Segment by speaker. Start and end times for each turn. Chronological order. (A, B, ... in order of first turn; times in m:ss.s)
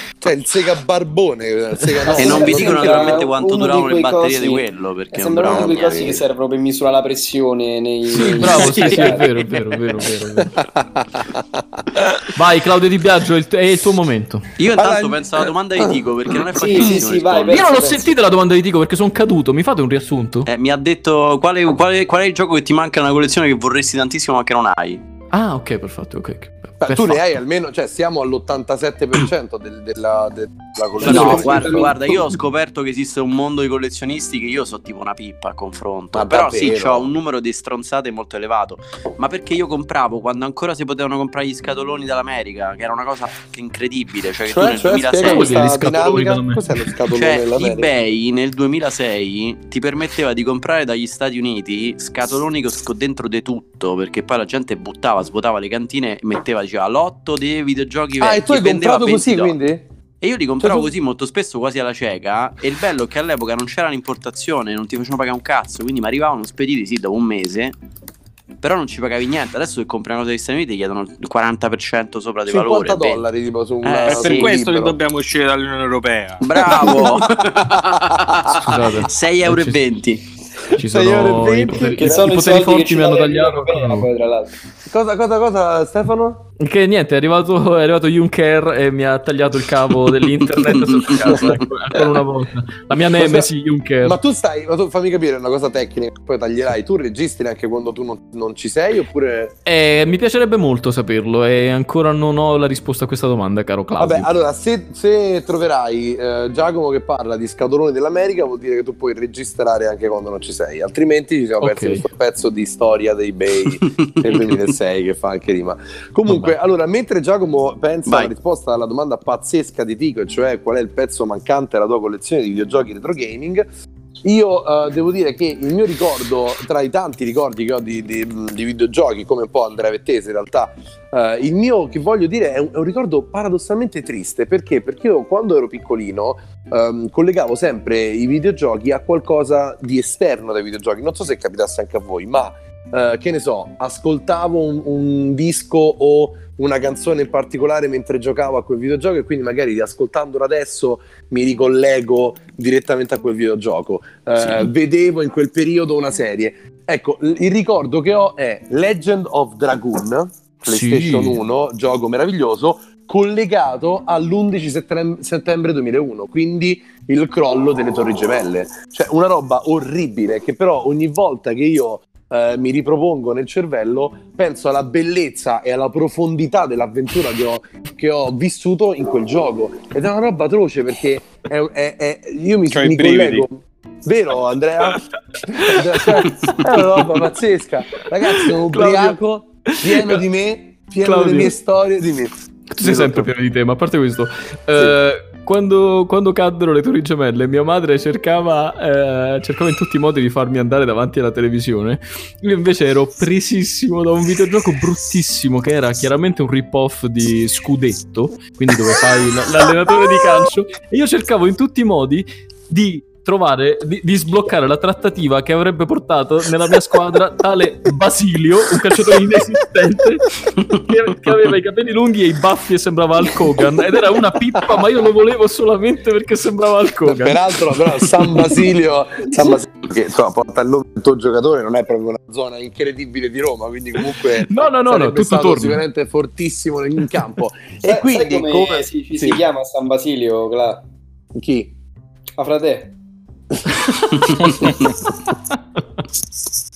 0:00.2-0:03.2 A
0:02.1-0:09.3 B
0:02.2-0:06.2 C
0:05.4-0:06.2 A
0:08.1-0:10.6 D
0:08.4-0:09.5 C
0:10.4-0:12.3 A
0:12.3-0:14.5 D
0:14.6-0:17.7 C
0:14.7-0:15.5 A
0:16.5-0:18.1 B
0:17.5-0:20.5 D
0:20.5-0:25.0 C
0:25.3-0:27.2 D
0:26.8-0:32.0 A
0:31.0-0:46.0 C
0:31.0-0:31.9 B
0:31.1-0:31.4 D
0:36.1-0:37.1 A
0:44.5-0:47.9 A
0:45.2-0:46.9 D
0:47.1-0:59.6 C
0:58.2-0:59.8 A
1:00.2-1:07.8 C
1:00.6-1:00.9 A
1:08.6-1:13.2 C
1:12.5-1:15.0 A
1:13.8-1:14.6 C
1:14.1-1:17.0 E
1:16.4-1:20.2 C
1:16.8-1:17.3 A
1:18.6-1:19.8 D
1:20.8-1:22.3 A
1:20.8-1:24.1 D
1:22.0-1:24.5 B
1:24.9-1:26.4 A
1:26.6-1:34.2 D
1:30.8-1:31.6 C
1:33.1-1:33.5 A
1:34.0-1:39.6 A
1:39.7-1:44.3 D
1:44.0-2:03.7 A
1:51.6-1:52.0 D
1:54.1-1:54.6 C
1:56.3-1:56.5 D
1:58.1-1:58.3 C
2:04.2-3:13.3 A
2:34.4-2:34.7 D
2:40.6-2:41.4 D
3:02.7-3:03.5 E
3:05.4-3:07.1 D
3:08.0-3:10.2 D
3:11.0-3:11.5 D
3:12.7-3:48.1 D
3:47.1-3:59.4 A
3:54.3-3:55.8 D
3:57.8-4:00.8 B
4:01.3-4:01.7 A
4:02.4-4:02.9 B
4:03.8-4:05.8 D